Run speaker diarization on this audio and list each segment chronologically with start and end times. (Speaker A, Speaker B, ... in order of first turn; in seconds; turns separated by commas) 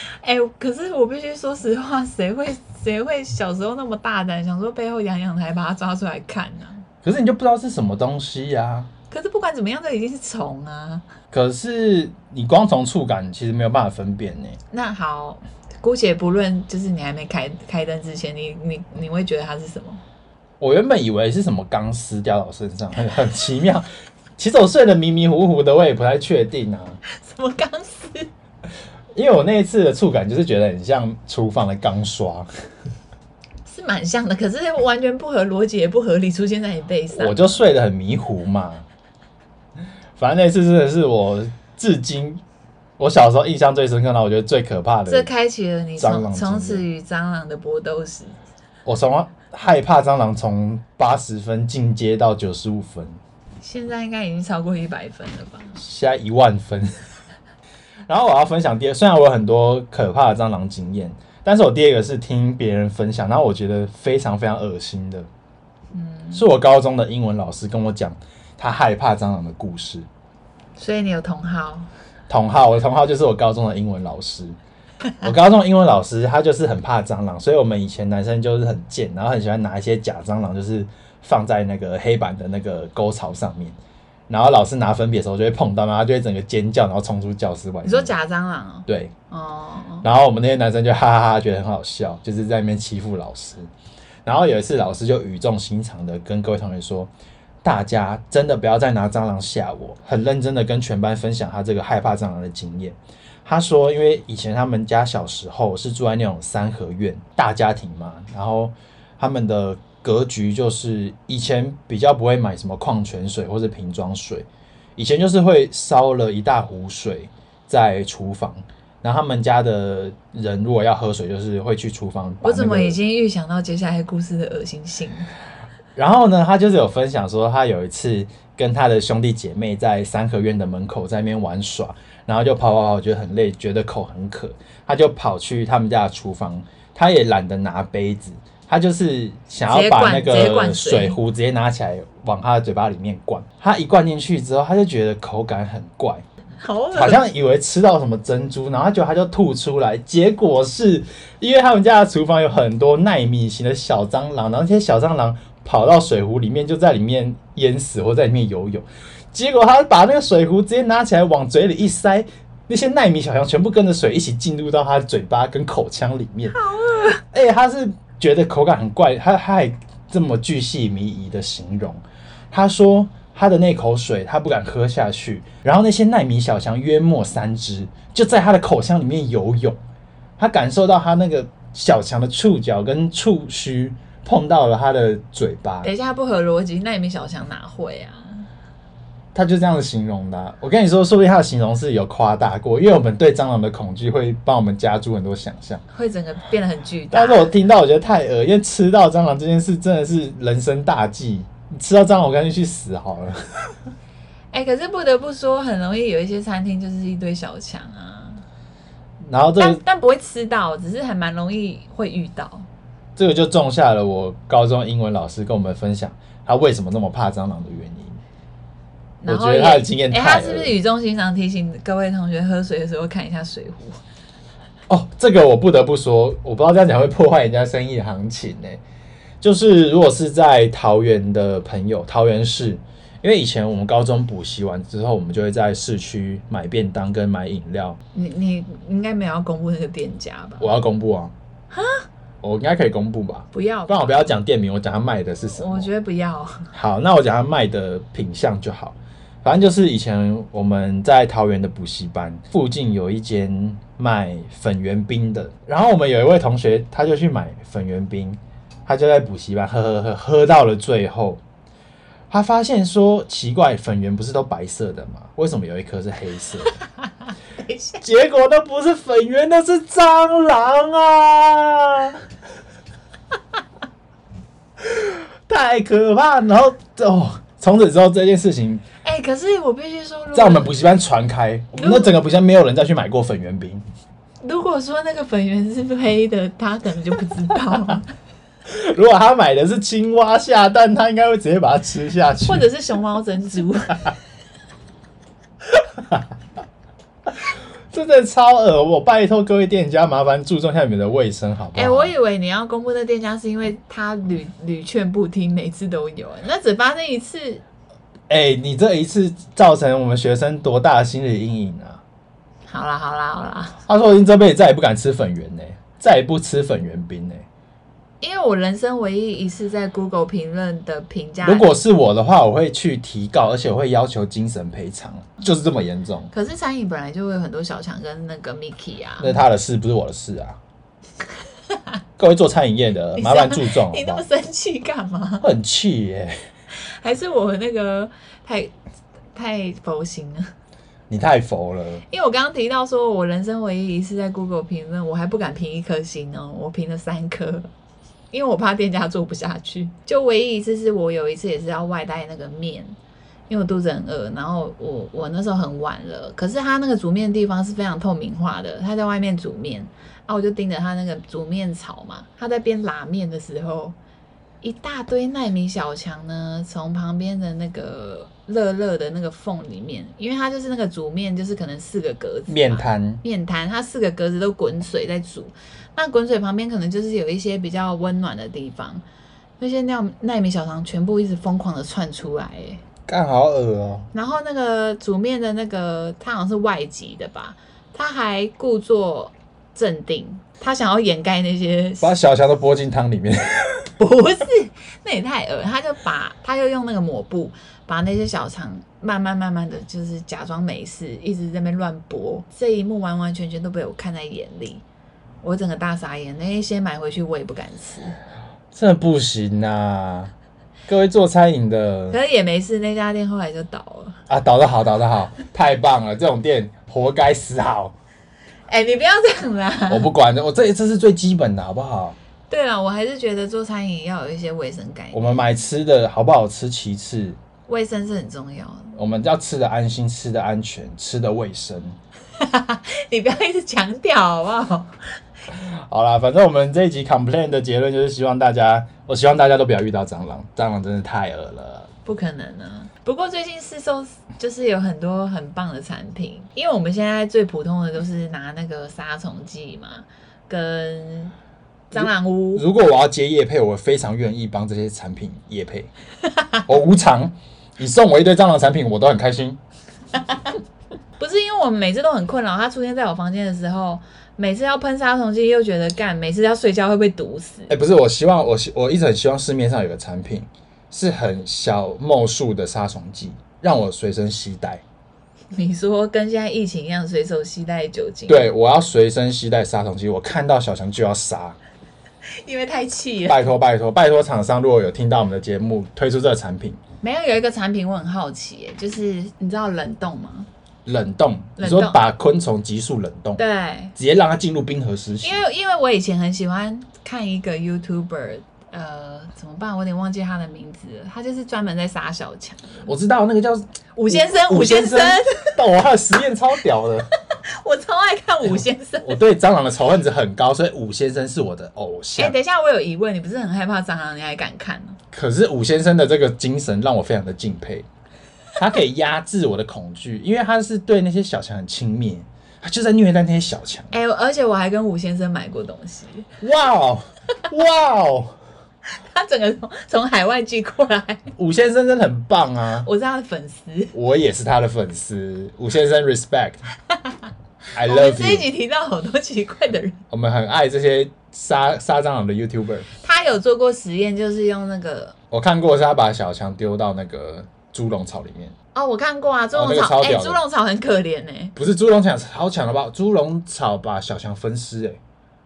Speaker A: 0.2-6.8, Speaker B: 7.0-8.9, Speaker A: 9.1-11.1, Speaker B: 11.3-14.6, Speaker A: 14.7-20.0, Speaker B: 20.6-27.0, Speaker A: 27.1-28.3, Speaker B: 29.1-32.5, Speaker A: 33.7-37.6, Speaker B: 37.1-38.9, Speaker B: 40.2-42.4, Speaker B: 43.0-45.3, Speaker A: 45.1-48.4, Speaker B: 46.0-46.9, Speaker B: 48.9-53.2, Speaker A: 53.6-55.8, Speaker B: 55.8-56.9, Speaker B: 58.1-65.3, Speaker A: 65.9-66.5, Speaker B: 66.3-70.1, Speaker A: 70.8-71.9, Speaker B: 72.3-74.6, Speaker B: 75.2-83.8, Speaker B: 84.3-88.2, Speaker A: 87.8-90.1, Speaker B: 88.9-89.1, Speaker B: 90.0-93.7, Speaker B: 94.3-97.1, Speaker B: 97.6-123.0, Speaker A: 122.4-125.3, Speaker B: 126.0-146.2, Speaker A: 139.7-141.2, Speaker A: 146.6-147.2, Speaker B: 146.9-166.6, Speaker A: 166.5-167.2, Speaker B: 167.2-179.8, Speaker B: 180.4-185.9, Speaker A: 185.8-188.5, Speaker B: 189.3-195.8, Speaker A: 195.9-197.5, Speaker B: 197.1-203.4, Speaker A: 204.5-208.4, Speaker B: 209.3-209.8, Speaker A: 209.6-212.7, Speaker B: 213.2-218.2, Speaker A: 219.2-224.0, Speaker B: 219.3-220.7, Speaker B: 224.9-228.8, Speaker B: 229.4-238.0, Speaker A: 238.1-240.7, Speaker B: 240.6-241.3, Speaker A: 241.7-242.1, Speaker B: 242.4-245.9, Speaker A: 243.5-244.2, Speaker A: 245.4-246.7, Speaker B: 246.7-261.4, Speaker B: 262.3-266.7, Speaker A: 267.6-268.0, Speaker B: 268.0-272.2, Speaker B: 274.8-278.8, Speaker A: 279.0-280.8, Speaker B: 280.3-283.8, Speaker A: 281.8-282.2, Speaker A: 284.4-288.1, Speaker B: 288.7-292.7, Speaker A: 292.4-294.1, Speaker B: 297.9-302.1, Speaker A: 301.8-307.6, Speaker B: 308.3-312.0, Speaker A: 312.7-313.8, Speaker B: 313.9-317.4, Speaker A: 318.2-321.7, Speaker B: 321.4-326.3, Speaker A: 326.3-329.4, Speaker B: 329.2-330.6, Speaker B: 332.2-334.2, Speaker A: 333.2-335.5, Speaker B: 335.4-336.4, Speaker A: 336.9-338.7, Speaker A: 339.4-340.5, Speaker B: 341.1-342.0, Speaker A: 342.1-347.7, Speaker A: 348.3-353.0, Speaker A: 353.5-364.0, Speaker A: 364.6-379.0, Speaker B: 372.5-373.2, Speaker A: 379.6-382.8, Speaker B: 383.1-384.1, Speaker A: 384.1-392.1, Speaker B: 392.0-393.9, Speaker A: 394.0-404.8, Speaker A: 405.4-408.2, Speaker B: 408.7-410.3, Speaker B: 410.9-412.2, Speaker A: 412.1-414.2, Speaker B: 414.3-417.9, Speaker A: 418.7-420.1, Speaker B: 419.9-422.2, Speaker A: 422.5-425.5, Speaker B: 425.1-427.4, Speaker A: 427.7-429.0, Speaker B: 428.9-432.0, Speaker A: 432.4-434.9, Speaker B: 435.5-441.9, Speaker A: 442.1-451.4, Speaker A: 451.9-452.7, Speaker B: 451.9-455.9, Speaker B: 456.6-459.6, Speaker A: 461.2-467.7, Speaker B: 467.7-474.8, Speaker A: 475.5-478.5, Speaker B: 478.3-481.6, Speaker A: 482.4-483.5, Speaker B: 483.3-486.8, Speaker A: 487.0-490.5, Speaker B: 490.9-493.4, Speaker A: 491.6-492.0, Speaker A: 493.4-493.9, Speaker B: 494.0-495.4, Speaker A: 495.2-502.9, Speaker B: 502.8-507.1, Speaker A: 504.0-505.5, Speaker A: 507.4-509.2, Speaker B: 508.5-512.4, Speaker A: 512.2-515.0, Speaker B: 515.1-517.9, Speaker B: 518.6-523.9, Speaker A: 523.9-526.3, Speaker B: 526.4-528.4, Speaker A: 528.9-531.3, Speaker B: 531.4-532.9, Speaker A: 532.8-533.9, Speaker B: 533.9-536.6, Speaker B: 537.8-538.5, Speaker A: 537.8-540.0, Speaker B: 540.1-542.9, Speaker A: 543.0-545.2, Speaker B: 545.3-548.5, Speaker A: 548.7-551.6, Speaker B: 549.5-550.4, Speaker B: 551.6-555.0